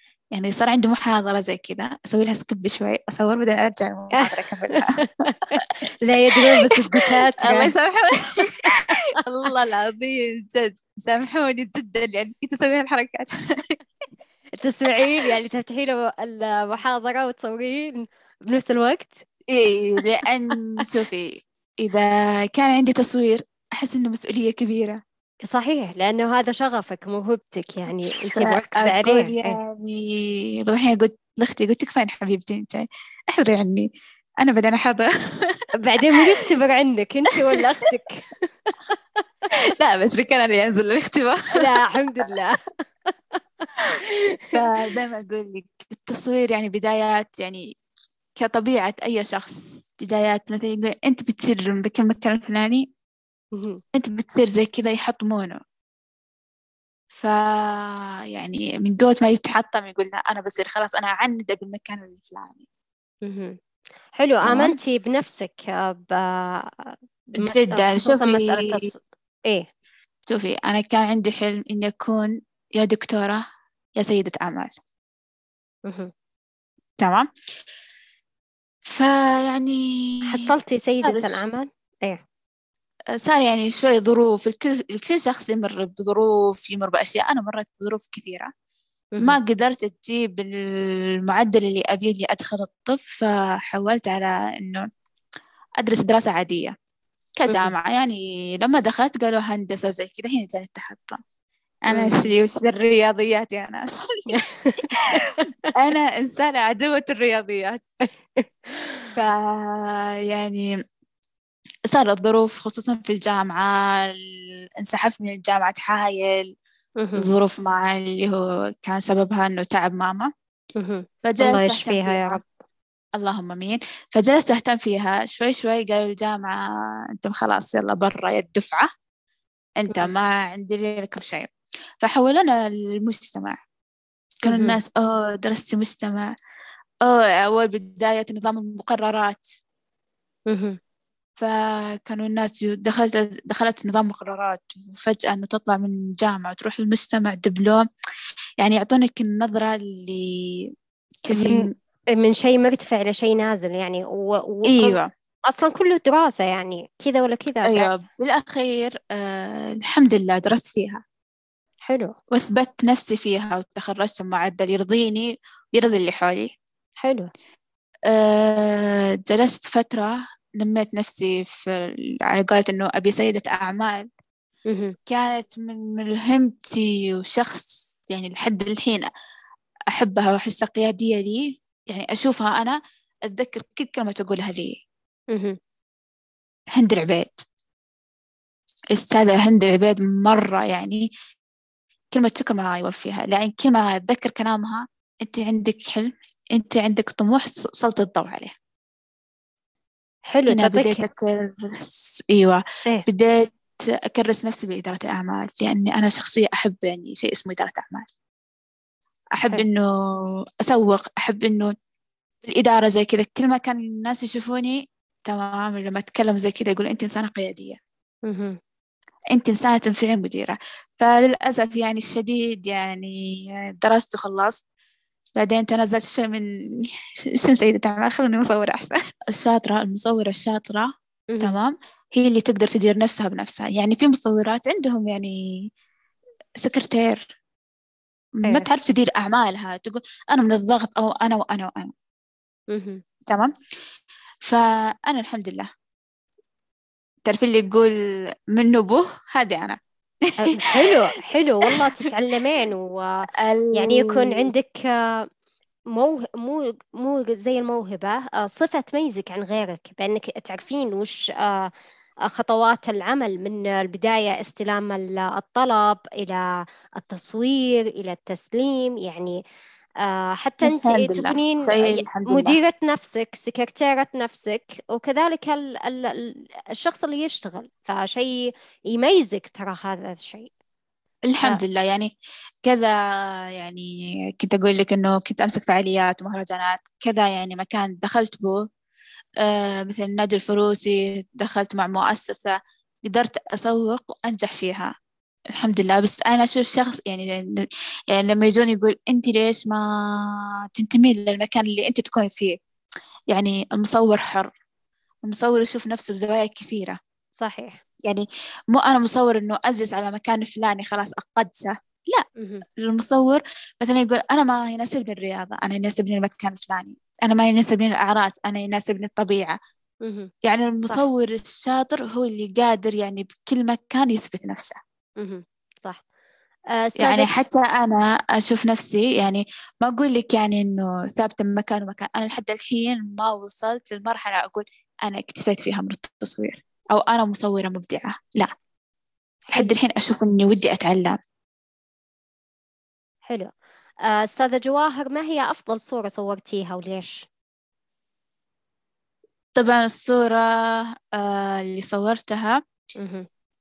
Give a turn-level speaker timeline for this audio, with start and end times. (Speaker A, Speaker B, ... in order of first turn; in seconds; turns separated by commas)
Speaker A: 0.3-4.9, Speaker B: 4.2-7.7, Speaker A: 6.6-8.7, Speaker B: 8.7-9.0, Speaker A: 9.2-13.7, Speaker B: 14.6-19.2, Speaker A: 14.9-15.3, Speaker A: 19.5-25.0, Speaker B: 25.4-29.6, Speaker A: 28.4-33.9, Speaker A: 34.4-35.6, Speaker B: 35.8-39.0, Speaker A: 39.8-41.4, Speaker B: 41.5-42.6, Speaker B: 43.4-44.4, Speaker A: 44.5-47.6, Speaker A: 48.4-52.9, Speaker B: 53.5-53.8, Speaker A: 53.9-55.6, Speaker A: 57.1-62.6, Speaker B: 63.2-63.5, Speaker B: 64.2-69.7, Speaker A: 64.4-64.8, Speaker A: 67.4-68.8, Speaker A: 70.3-73.4, Speaker A: 74.0-74.7, Speaker B: 75.8-76.1, Speaker A: 77.0-77.3, Speaker A: 78.8-80.4, Speaker B: 80.2-82.2, Speaker A: 81.0-81.4, Speaker A: 83.2-88.5, Speaker A: 89.2-94.9, Speaker A: 95.8-96.7, Speaker A: 97.4-101.2, Speaker B: 97.5-97.7, Speaker A: 101.9-103.9, Speaker B: 101.9-102.3, Speaker B: 104.3-105.7, Speaker A: 105.8-107.8, Speaker B: 108.7-109.0, Speaker A: 109.2-110.7, Speaker A: 111.9-114.2, Speaker A: 114.8-116.5, Speaker B: 117.0-117.3, Speaker A: 117.2-120.3, Speaker B: 120.8-122.4, Speaker A: 121.2-122.4, Speaker A: 123.2-126.6, Speaker A: 127.2-128.9, Speaker A: 129.8-131.5, Speaker A: 132.0-133.6, Speaker A: 134.4-136.3, Speaker B: 134.4-134.8, Speaker A: 137.0-139.4, Speaker B: 140.5-140.8, Speaker A: 141.4-147.8, Speaker A: 148.6-150.3, Speaker A: 151.2-151.7, Speaker B: 151.3-151.6, Speaker B: 152.1-158.0, Speaker A: 154.7-155.1, Speaker A: 157.6-161.0, Speaker B: 161.9-162.1, Speaker A: 162.3-166.5, Speaker B: 167.0-167.3, Speaker A: 168.1-174.1, Speaker B: 174.7-174.9, Speaker A: 175.1-179.0, Speaker A: 179.9-182.8, Speaker A: 183.3-184.8, Speaker A: 186.7-187.4, Speaker A: 188.9-191.0, Speaker A: 192.1-198.5, Speaker B: 200.3-201.0, Speaker A: 200.5-203.5, Speaker A: 204.1-208.1, Speaker A: 209.3-211.7, Speaker A: 212.4-217.8, Speaker B: 218.3-218.6, Speaker A: 219.3-223.2, Speaker A: 223.8-224.6, Speaker A: 225.3-226.9, Speaker A: 227.4-230.9, Speaker B: 231.3-231.6, Speaker A: 231.4-235.3, Speaker A: 236.6-237.2, Speaker A: 238.4-241.9, Speaker B: 242.7-243.0, Speaker A: 243.3-243.5, Speaker A: 244.4-245.7, Speaker A: 247.2-247.9, Speaker A: 248.5-250.5, Speaker B: 250.4-255.2, Speaker A: 251.7-252.1, Speaker A: 253.4-254.5, Speaker B: 255.9-261.7, Speaker B: 262.3-266.4, Speaker B: 266.9-269.4, Speaker B: 270.0-280.5, Speaker A: 270.6-272.6, Speaker A: 281.3-282.1, Speaker A: 282.6-282.9, Speaker A: 283.6-283.9, Speaker A: 284.4-288.6, Speaker A: 289.4-294.9, Speaker A: 295.6-299.8, Speaker A: 300.8-302.6, Speaker A: 303.3-304.5, Speaker A: 305.2-307.0, Speaker B: 307.4-307.8, Speaker A: 308.1-312.2, Speaker B: 312.4-312.6, Speaker A: 312.8-319.5, Speaker A: 320.4-324.8, Speaker B: 325.2-326.0, Speaker B: 326.7-327.3, Speaker A: 327.0-338.5, Speaker A: 339.5-341.2, Speaker B: 344.1-347.3, Speaker A: 349.6-352.6, Speaker B: 353.0-353.3